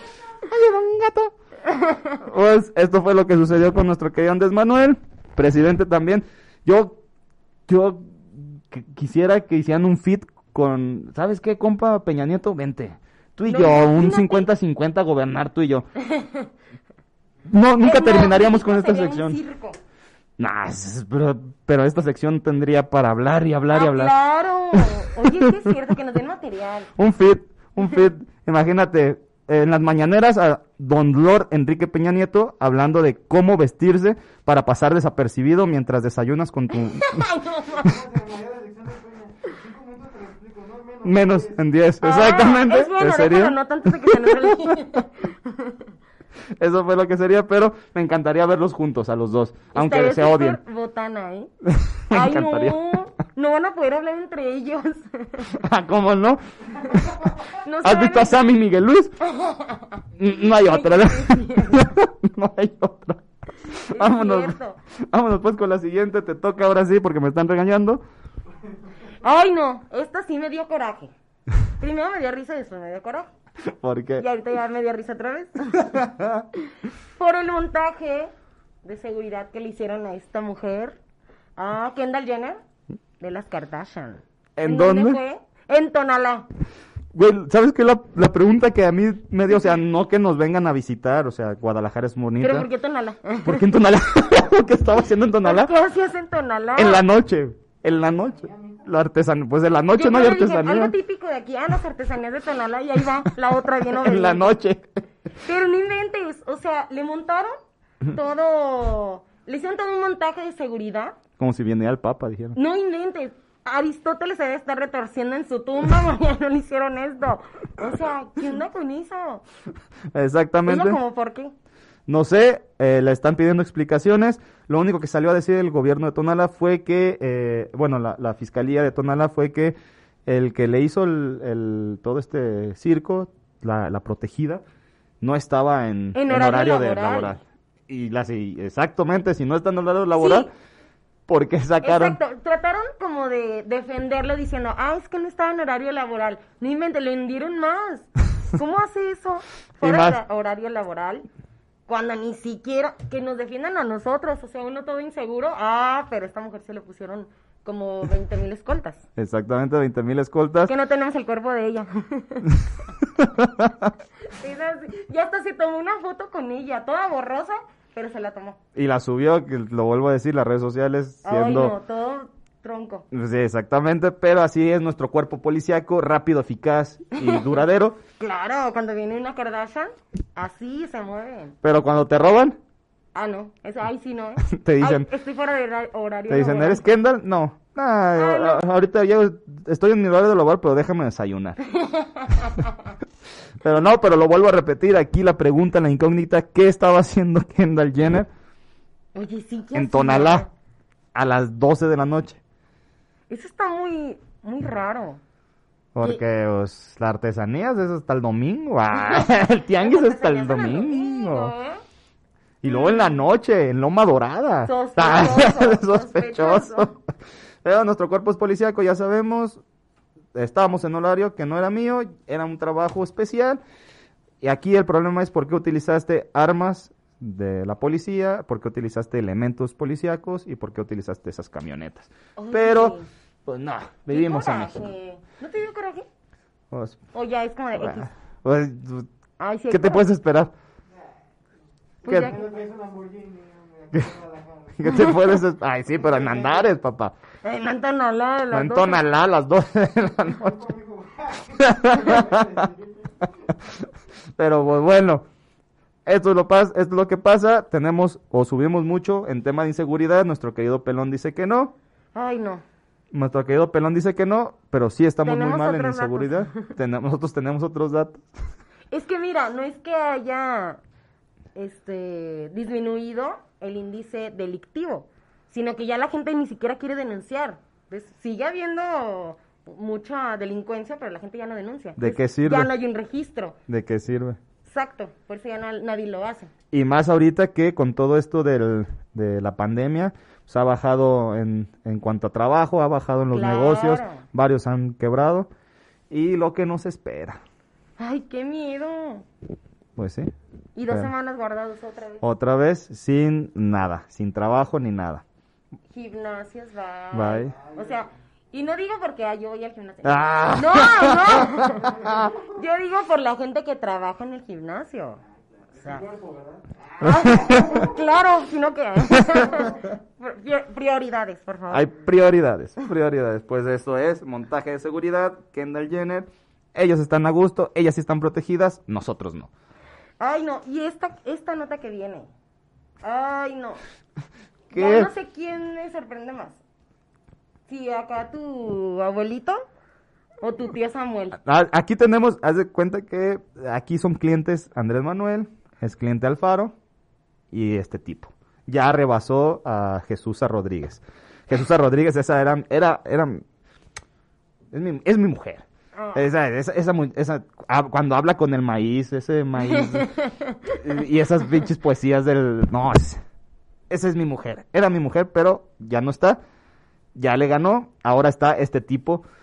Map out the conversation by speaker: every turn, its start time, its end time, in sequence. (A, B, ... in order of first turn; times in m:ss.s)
0:00.4-0:01.3 A
0:01.7-0:02.1 B
0:02.2-0:07.0 A
0:07.7-0:15.9 A
0:13.5-0:14.4 B
0:16.0-0:16.5 B
0:17.5-0:19.4 A
0:17.8-0:19.8 B
0:20.4-0:24.1 A
0:23.7-0:26.9 B
0:24.7-0:25.7 A
0:27.0-0:37.3 A
0:37.0-0:37.8 B
0:37.8-0:41.6 C
0:41.0-0:44.7 A
0:42.0-0:45.7 B
0:46.6-0:50.6 A
0:49.7-0:51.5 B
0:51.6-0:52.8 A
0:52.1-0:55.5 B
0:55.6-0:56.4 A
0:57.5-0:58.4 B
0:57.8-0:59.1 A
0:59.3-0:59.8 B
1:00.2-1:03.2 A
1:00.4-1:01.9 B
1:03.9-1:04.8 B
1:03.9-1:04.6 A
1:05.1-1:08.0 A
1:09.2-1:11.1 B
1:11.8-1:13.3 B
1:13.7-1:14.2 A
1:14.2-1:15.9 B
1:15.8-1:16.4 A
1:17.2-1:18.3 B
1:18.8-1:21.0 B
1:21.6-1:22.6 B
1:23.2-1:26.5 B
1:24.6-1:25.2 A
1:27.1-1:32.7 A
1:32.4-1:33.6 B
1:33.4-1:35.7 A
1:35.4-1:37.0 B
1:36.8-1:40.9 A
1:38.4-1:38.8 C
1:39.9-1:44.5 B
1:44.0-1:44.9 A
1:45.4-1:47.6 B
1:48.1-1:51.2 B
1:51.4-1:52.6 A
1:52.5-1:59.4 B
2:00.1-2:01.0 A
2:00.7-2:01.5 B
2:02.1-2:09.7 A
2:10.2-2:14.6 A
2:15.2-2:20.5 A
2:16.1-2:17.4 B
2:20.2-2:20.5 B
2:21.3-2:22.2 A
2:21.8-2:31.3 B
2:29.8-2:30.2 A
2:31.9-2:39.0 B
2:39.2-2:40.7 A
2:40.7-2:42.5 B
2:43.2-2:43.9 A
2:44.3-2:48.6 B
2:48.8-2:51.8 A
2:51.2-2:53.0 B
2:53.1-2:58.0 A
2:57.2-2:57.4 B
2:58.2-3:01.6 B
3:01.6-3:02.6 A
3:03.1-3:06.8 B
3:04.4-3:05.1 A
3:06.3-3:11.6 A
3:08.2-3:08.6 B
3:11.8-3:12.7 B
3:13.6-3:18.3 A
3:19.1-3:20.5 B
3:19.7-3:20.4 A
3:21.1-3:22.4 A
3:23.3-3:25.2 B
3:25.9-3:31.5 A
3:28.9-3:31.8 B
3:32.6-3:37.0 A
3:32.6-3:33.1 B
3:34.6-3:36.9 B
3:37.6-3:39.6 A
3:40.3-3:43.6 A
3:44.4-3:52.9 A
3:52.4-3:53.0 B
3:53.4-3:54.8 A
3:54.1-3:56.0 B
3:56.7-3:57.0 A
3:57.1-3:58.1 B
3:57.8-3:59.1 A
3:59.4-4:00.0 B
3:59.7-4:00.5 A
4:02.0-4:05.2 C
4:02.0-4:02.5 B
4:02.1-4:02.3 A
4:04.8-4:07.1 A
4:06.0-4:06.7 C
4:07.4-4:09.0 B
4:08.5-4:10.7 A
4:10.4-4:13.3 C
4:11.6-4:12.5 A
4:14.4-4:15.2 A
4:16.0-4:21.7 A
4:22.1-4:22.6 B
4:23.1-4:28.2 A
4:25.2-4:26.6 B
4:28.9-4:30.8 B
4:31.6-4:43.6 B
4:42.0-4:42.7 A
4:43.7-4:44.4 A
4:44.6-4:46.5 B
4:46.7-4:55.5 A
4:53.3-4:54.2 B
4:56.1-4:57.4 A
4:58.0-4:59.2 B
5:00.0-5:00.3 A
5:00.8-5:02.2 B
5:02.2-5:05.2 A
5:05.9-5:11.9 B
5:07.1-5:07.5 A
5:07.5-5:08.1 C
5:10.0-5:11.6 A
5:11.9-5:12.4 C
5:12.4-5:15.2 B
5:15.7-5:17.9 C
5:15.8-5:16.0 B
5:17.0-5:21.9 B
5:21.7-5:29.5 A
5:30.2-5:32.3 B
5:33.0-5:33.8 B
5:34.7-5:35.1 A
5:34.7-5:36.6 B
5:37.7-5:39.6 B
5:40.4-5:41.4 B
5:41.4-5:46.7 A
5:47.5-5:53.4 A
5:54.7-6:00.1 A
5:56.0-5:56.2 B
5:59.7-6:00.7 B
6:00.7-6:03.2 A
6:03.9-6:06.4 A
6:07.1-6:09.2 A